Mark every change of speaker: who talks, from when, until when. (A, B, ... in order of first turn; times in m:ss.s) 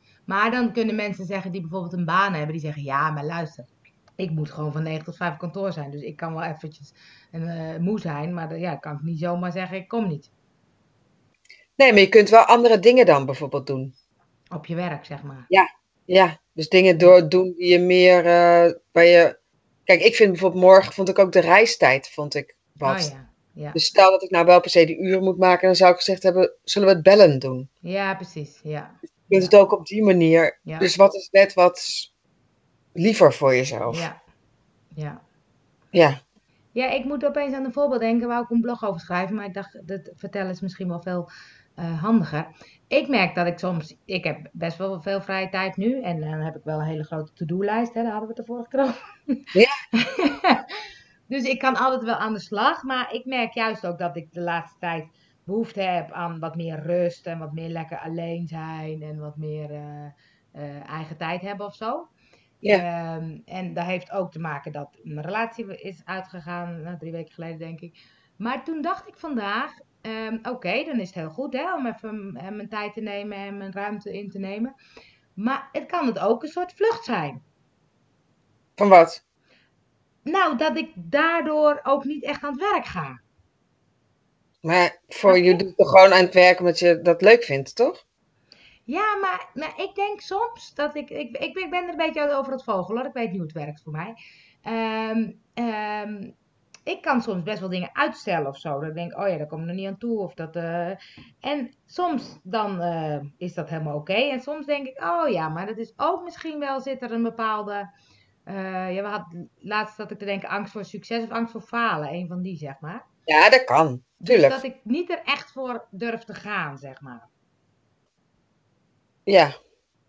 0:00.3-0:10.3 A
0:11.8-0:13.9 B
0:14.5-0:15.5 A
0:15.5-0:19.4 B
0:19.9-0:23.1 B
0:22.8-0:23.8 A
0:23.7-0:27.7 B
0:27.8-0:29.5 A
0:29.3-0:32.1 B
0:30.6-0:30.9 A
0:33.0-0:34.1 B
0:33.9-0:34.2 A
0:34.9-0:35.2 A
0:35.9-0:36.2 B
0:36.7-0:49.4 A
0:50.0-1:02.1 A
1:02.6-1:14.7 A
1:15.4-1:17.4 A
1:18.8-1:19.2 B
1:20.2-1:23.2 A
1:24.6-1:28.0 B
1:25.2-1:25.6 A
1:28.9-1:36.3 A
1:36.9-1:47.9 A
1:48.4-1:53.0 A
1:53.3-1:54.6 B
1:54.2-1:57.3 A
1:59.3-1:59.5 B